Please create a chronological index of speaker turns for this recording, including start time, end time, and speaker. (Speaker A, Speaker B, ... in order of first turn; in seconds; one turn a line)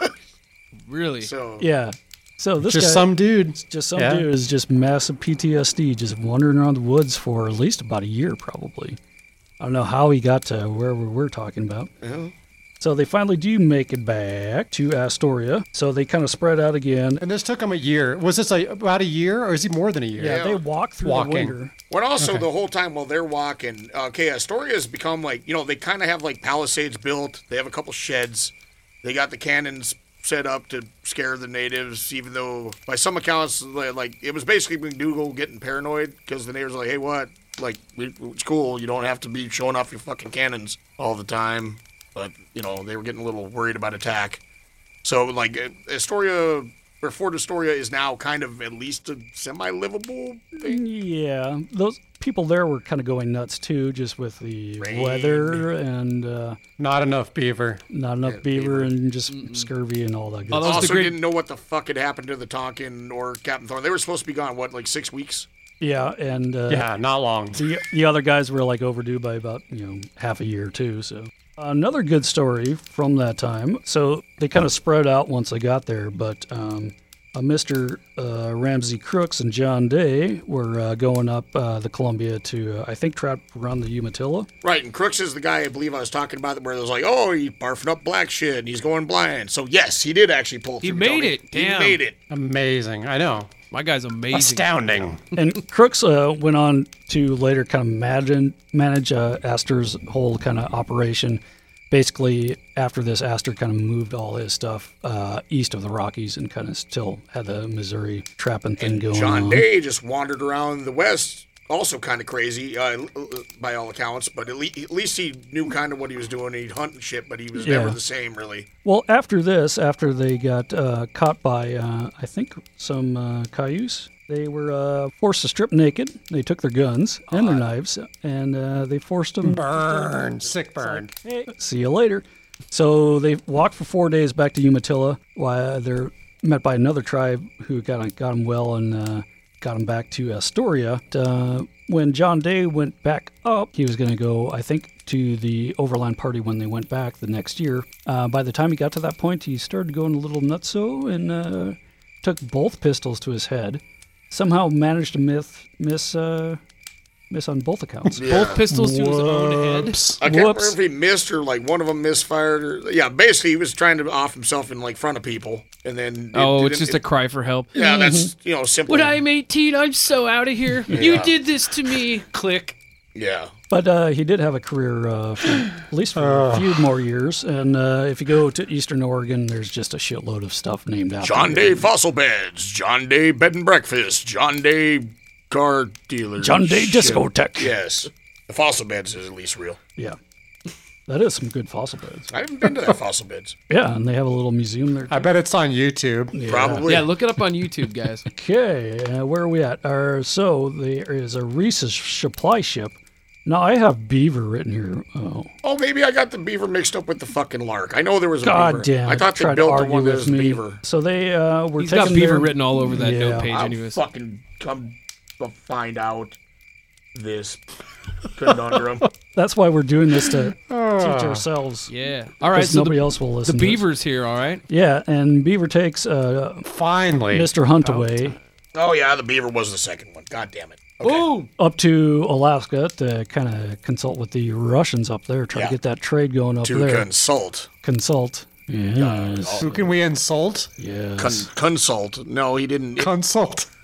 Speaker A: 0.9-1.3
Speaker B: 1.2-1.7
Speaker C: 1.6-9.0
Speaker D: 2.6-4.3
Speaker C: 9.6-11.9
Speaker B: 12.0-12.3
Speaker C: 12.8-17.2
Speaker D: 17.2-20.4
Speaker C: 20.2-21.7
Speaker B: 20.2-20.6
Speaker D: 21.0-21.6
Speaker B: 21.9-44.4
Speaker D: 22.2-22.5
Speaker B: 45.0-50.8
Speaker C: 50.6-56.6
Speaker B: 54.8-55.7
Speaker D: 56.8-57.8
Speaker C: 57.9-60.9
Speaker B: 58.2-58.9
Speaker A: 59.3-59.7
Speaker A: 60.5-61.2
Speaker B: 60.6-65.5
Speaker C: 65.8-66.9
Speaker D: 66.7-67.6
Speaker C: 67.5-84.5
Speaker B: 84.6-92.2
Speaker A: 90.8-92.0
Speaker D: 92.3-93.5
Speaker A: 93.7-94.8
Speaker D: 94.3-95.2
Speaker C: 95.4-109.6
Speaker B: 108.8-118.7
Speaker C: 117.5-118.0
Speaker C: 118.8-130.2
Speaker B: 127.3-127.7
Speaker D: 129.4-131.1
Speaker C: 130.8-156.6
Speaker C: 157.3-158.2
Speaker B: 158.2-158.6
Speaker A: 158.2-160.0
Speaker D: 158.7-160.2
Speaker C: 160.2-160.8
Speaker B: 160.2-167.0
Speaker A: 166.3-167.7
Speaker B: 167.7-169.2
Speaker C: 167.8-168.3
Speaker A: 168.9-172.8
Speaker B: 170.9-171.3
Speaker B: 173.1-173.5
Speaker C: 173.7-181.9
Speaker D: 176.1-176.8
Speaker B: 181.2-189.8
Speaker C: 186.4-187.7
Speaker C: 191.1-192.3
Speaker B: 192.3-193.6
Speaker C: 193.7-195.3
Speaker D: 195.1-196.4
Speaker C: 196.3-196.9
Speaker B: 196.4-197.1
Speaker A: 196.9-198.3
Speaker C: 198.3-205.5
Speaker B: 205.6-210.8
Speaker C: 208.4-213.5
Speaker A: 211.8-214.0
Speaker B: 213.5-216.4
Speaker B: 217.1-217.6
Speaker B: 218.3-219.1
Speaker C: 219.3-221.9
Speaker D: 220.6-221.5
Speaker A: 221.9-224.6
Speaker C: 222.5-223.8
Speaker C: 224.7-226.7
Speaker D: 226.6-227.5
Speaker C: 227.3-228.4
Speaker A: 227.8-228.3
Speaker B: 228.8-231.3
Speaker A: 231.0-231.5
Speaker C: 231.6-237.1
Speaker B: 236.6-237.7
Speaker C: 237.8-239.6
Speaker B: 239.0-239.9
Speaker D: 239.6-240.7
Speaker C: 240.8-241.5
Speaker B: 241.2-243.1
Speaker D: 243.0-243.7